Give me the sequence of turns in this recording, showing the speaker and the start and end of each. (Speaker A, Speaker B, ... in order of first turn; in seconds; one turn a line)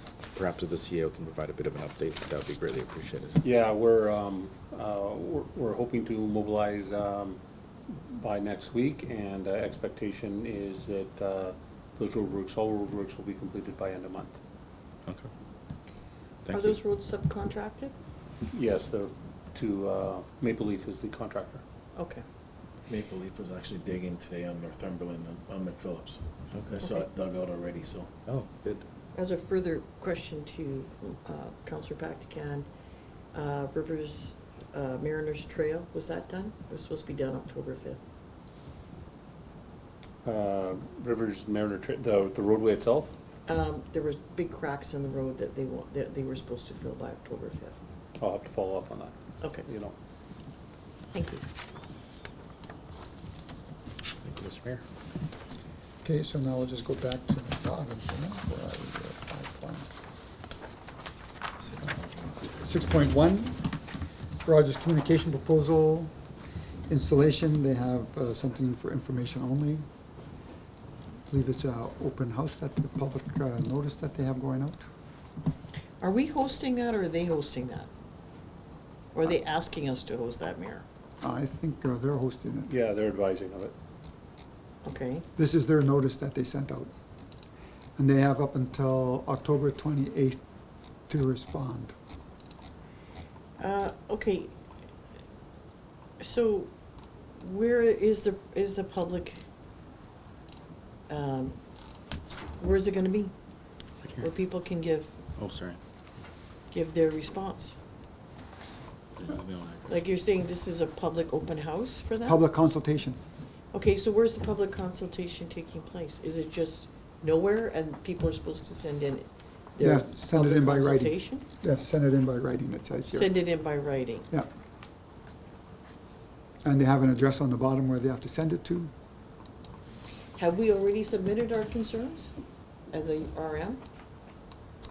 Speaker A: 0.3-3.4
Speaker B: 3.4-7.4
Speaker B: 8.1-14.3
Speaker A: 16.4-16.8
Speaker C: 16.5-17.9
Speaker B: 18.5-21.6
Speaker C: 22.0-22.2
Speaker D: 22.9-28.1
Speaker A: 26.5-26.9
Speaker A: 28.3-28.8
Speaker C: 29.1-32.7
Speaker C: 33.3-38.0
Speaker B: 40.2-43.1
Speaker C: 43.5-47.8
Speaker B: 48.2-49.9
Speaker C: 51.1-51.4
Speaker A: 54.2-54.8
Speaker E: 56.0-59.9
Speaker E: 62.5-63.7
Speaker E: 64.4-66.1
Speaker E: 66.9-69.8
Speaker E: 71.3-74.8
Speaker C: 76.0-77.9
Speaker C: 79.1-80.8
Speaker E: 81.2-82.7
Speaker B: 82.7-83.7
Speaker C: 84.8-85.2
Speaker E: 85.3-86.9
Speaker E: 88.0-90.4
Speaker E: 91.1-91.9
Speaker C: 93.6-94.5
Speaker C: 96.2-96.7
Speaker C: 97.4-99.4
Speaker C: 101.1-101.5
Speaker C: 102.6-103.3
Speaker C: 104.2-105.1
Speaker A: 105.4-105.8
Speaker C: 106.7-107.7
Speaker A: 109.2-110.0
Speaker C: 109.9-112.4
Speaker E: 112.2-113.2
Speaker C: 113.7-121.4
Speaker E: 119.8-123.3
Speaker C: 123.1-124.3
Speaker E: 126.6-128.9
Speaker C: 130.3-132.3
Speaker C: 132.9-133.8